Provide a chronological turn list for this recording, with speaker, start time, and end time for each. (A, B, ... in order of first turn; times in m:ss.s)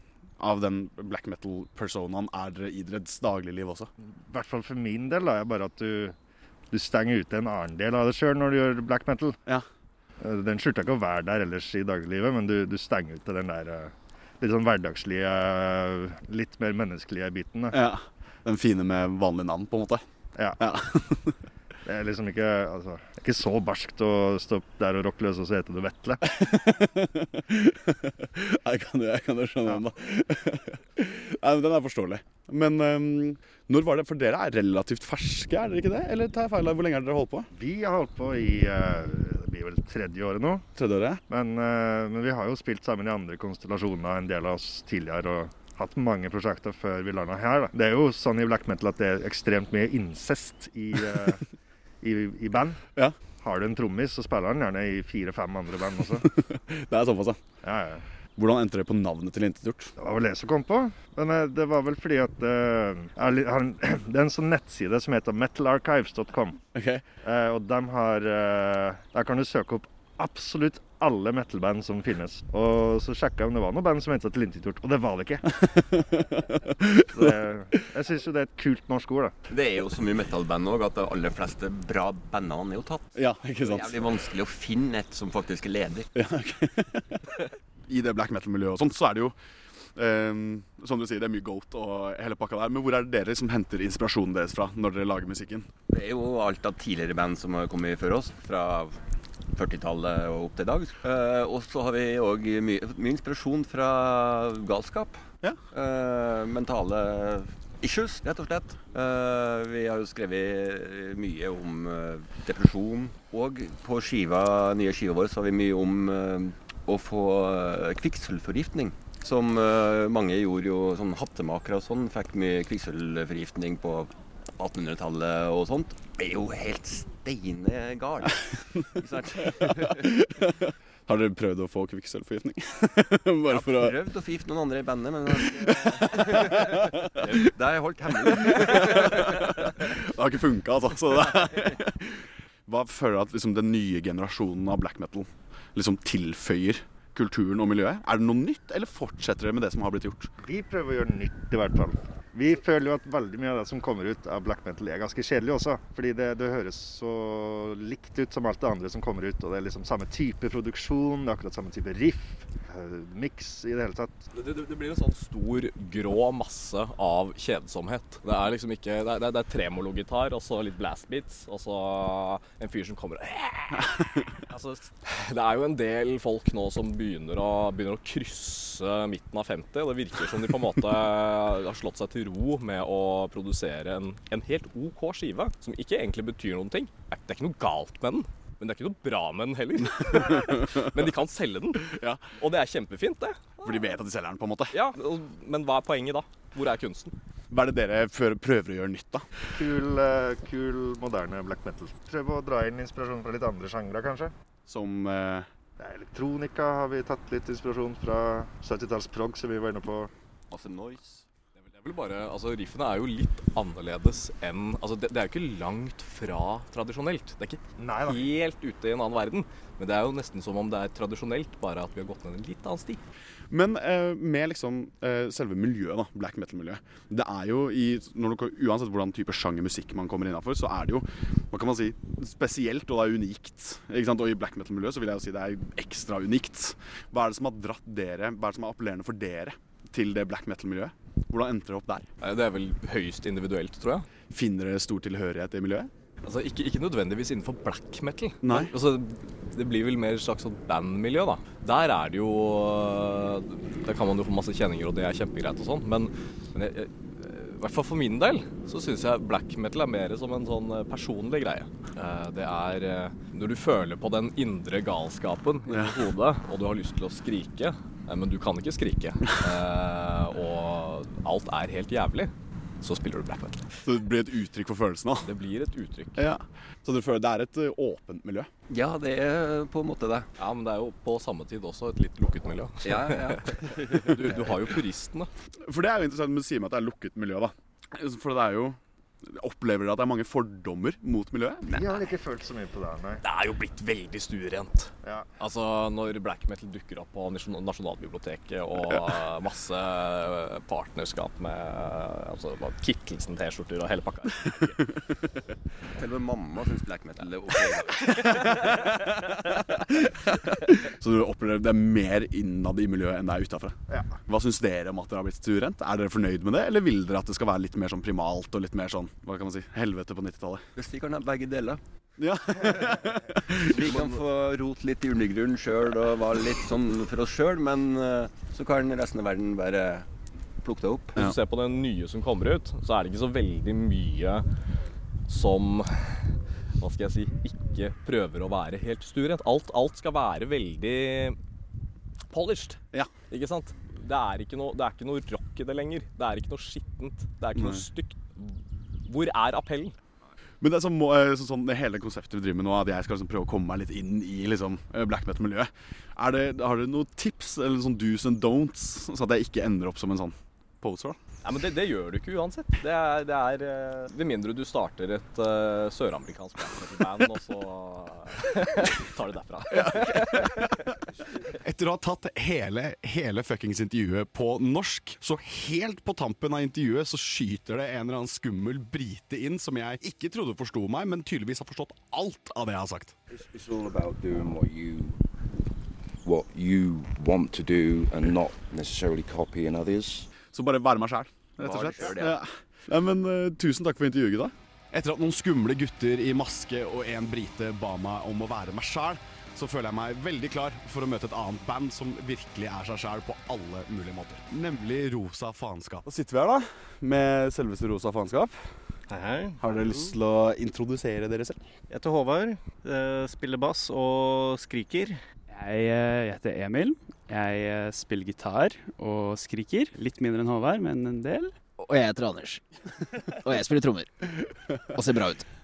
0:00.4-0:03.9 A
0:04.3-0:06.2 B
0:06.7-0:09.4 B
0:10.2-0:17.8 B
0:17.7-0:20.0 A
0:20.6-0:21.4 A
0:21.8-0:26.3 B
0:26.2-0:37.5 A
0:37.5-0:40.7 B
0:40.8-0:41.2 A
0:41.3-0:51.4 B
0:52.0-0:52.8 B
0:53.4-0:56.3 B
0:56.2-0:57.4 A
0:57.6-0:58.1 B
0:58.4-0:59.9 A
1:00.0-1:06.6 B
1:06.7-1:07.0 A
1:07.2-1:15.5 B
1:15.6-1:17.1 A
1:17.1-1:19.4 B
1:19.5-1:26.1 C
1:23.2-1:24.0 A
1:26.1-1:27.1 A
1:27.9-1:29.4 A
1:30.0-1:35.7 A
1:35.9-2:10.1 C
2:09.9-2:14.0 A
2:13.5-2:19.7 C
2:15.4-2:16.7 A
2:18.2-2:30.3 A
2:30.4-2:44.2 B
2:44.3-3:13.8 D
3:11.8-3:12.2 A
3:13.6-3:14.8 A
3:14.7-3:17.2 D
3:17.5-3:19.3 A
3:19.6-3:24.3 B
3:24.7-3:25.5 A
3:25.8-3:30.1 B
3:30.5-3:31.2 C
3:31.6-3:43.0 D
3:37.8-3:38.3 B
3:43.5-4:02.1 A
4:02.2-4:04.1 D
4:04.3-4:05.9 A
4:06.2-4:33.7 D
4:08.4-4:08.7 A
4:25.7-4:26.0 A
4:33.8-4:35.3 A
4:35.2-4:36.3 D
4:36.2-4:38.5 A
4:38.7-4:40.3 C
4:40.4-4:45.3 D
4:42.8-4:44.4 C
4:45.6-4:51.8 A
4:51.7-4:53.2 B
4:53.2-5:05.0 D
5:06.0-5:08.9 C
5:08.5-5:20.7 A
5:13.9-5:14.2 B
5:20.8-5:21.8 C
5:22.2-5:24.2 A
5:23.6-5:30.1 C
5:30.6-5:31.2 C
5:31.2-5:34.5 D
5:35.3-5:41.4 D
5:42.3-5:50.0 D
5:47.6-5:47.9 A
5:50.6-6:01.2 A
6:01.4-6:10.8 D
6:09.7-6:10.7 A
6:11.6-6:23.2 A
6:23.3-6:25.2 E
6:26.2-6:30.3 E
6:30.5-6:48.7 A
6:31.6-6:32.4 C
6:49.1-6:50.1 F
6:49.6-6:51.7 A
6:51.9-6:55.2 F
6:55.5-7:01.5 G
7:01.8-7:02.7 H
7:03.2-7:04.3 H
7:04.9-7:05.4 H